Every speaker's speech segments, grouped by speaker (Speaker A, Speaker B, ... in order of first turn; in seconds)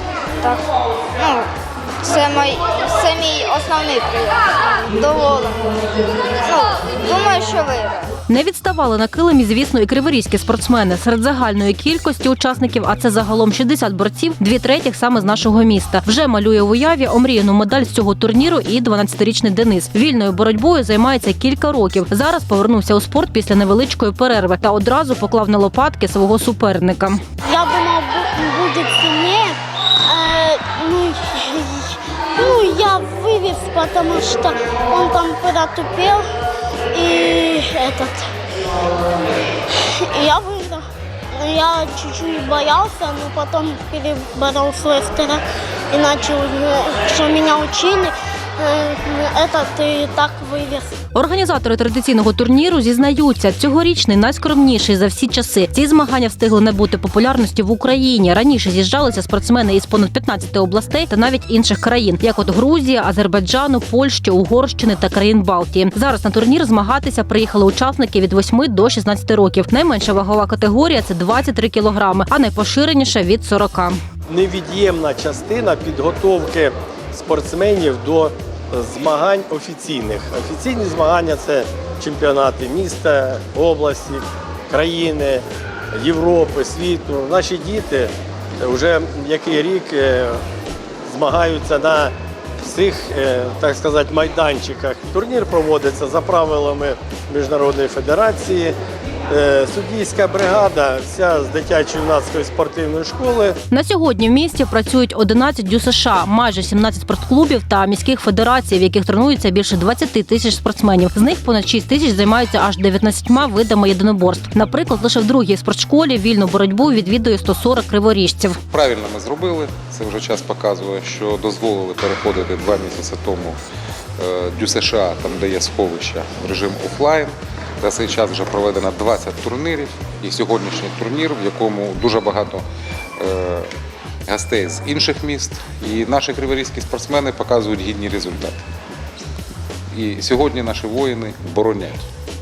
Speaker A: 0.4-1.5, 2.0-8.1
Speaker B: 8.3-27.2, 51.1-74.0, 103.7-118.6
Speaker C: 27.4-36.3, 36.9-38.3, 39.7-50.9
Speaker D: 74.3-85.4, 85.9-90.4, 91.1-98.7, 99.3-103.6
Speaker E: 118.7-123.6, 124.2-132.6, 133.2-133.7, 134.3-138.6, 139.9-142.1